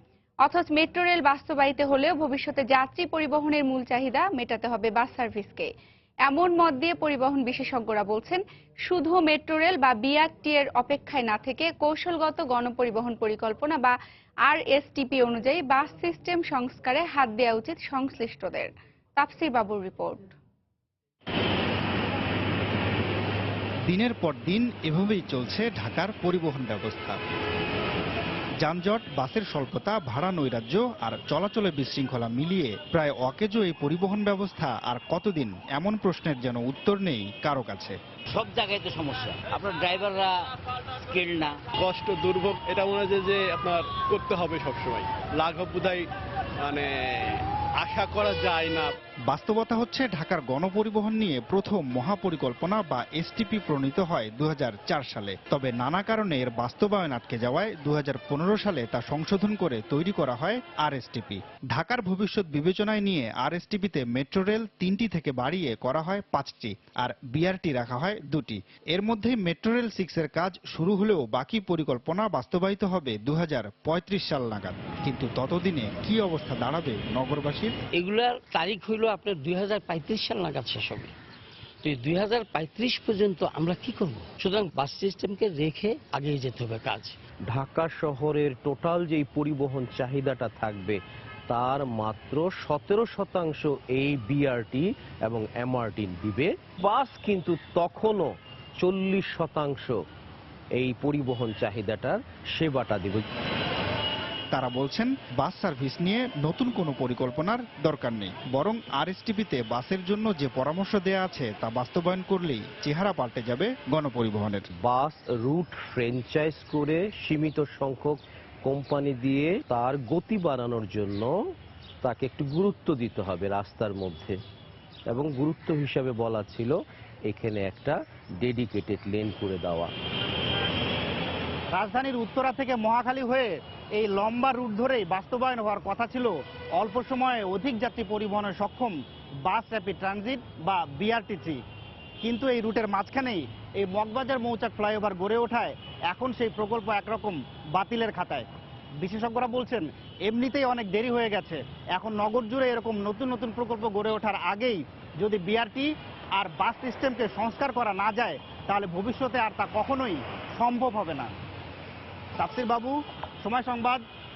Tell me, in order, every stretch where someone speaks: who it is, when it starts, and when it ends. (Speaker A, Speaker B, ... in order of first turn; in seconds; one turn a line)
Speaker A: 0.4-5.7
Speaker A: 6.3-20.3
Speaker B: 23.9-27.2
Speaker B: 28.6-38.0
Speaker C: 38.3-40.5
Speaker C: 41.1-41.6
Speaker D: 41.8-46.1
Speaker D: 46.6-48.9
Speaker B: 49.3-77.8
Speaker C: 77.9-81.1
Speaker C: 81.8-87.2
Speaker E: 87.5-91.0
Speaker E: 91.5-99.9
Speaker E: 100.8-103.3
Speaker B: 104.5-114.7
Speaker E: 114.8-121.3
Speaker E: 122.0-124.3
Speaker E: 125.1-126.8
Speaker E: 127.3-129.9
Speaker F: 131.7-138.9
Speaker F: 139.5-141.6
Speaker F: 142.2-148.4
Speaker F: 149.0-161.3
Speaker F: 162.4-164.0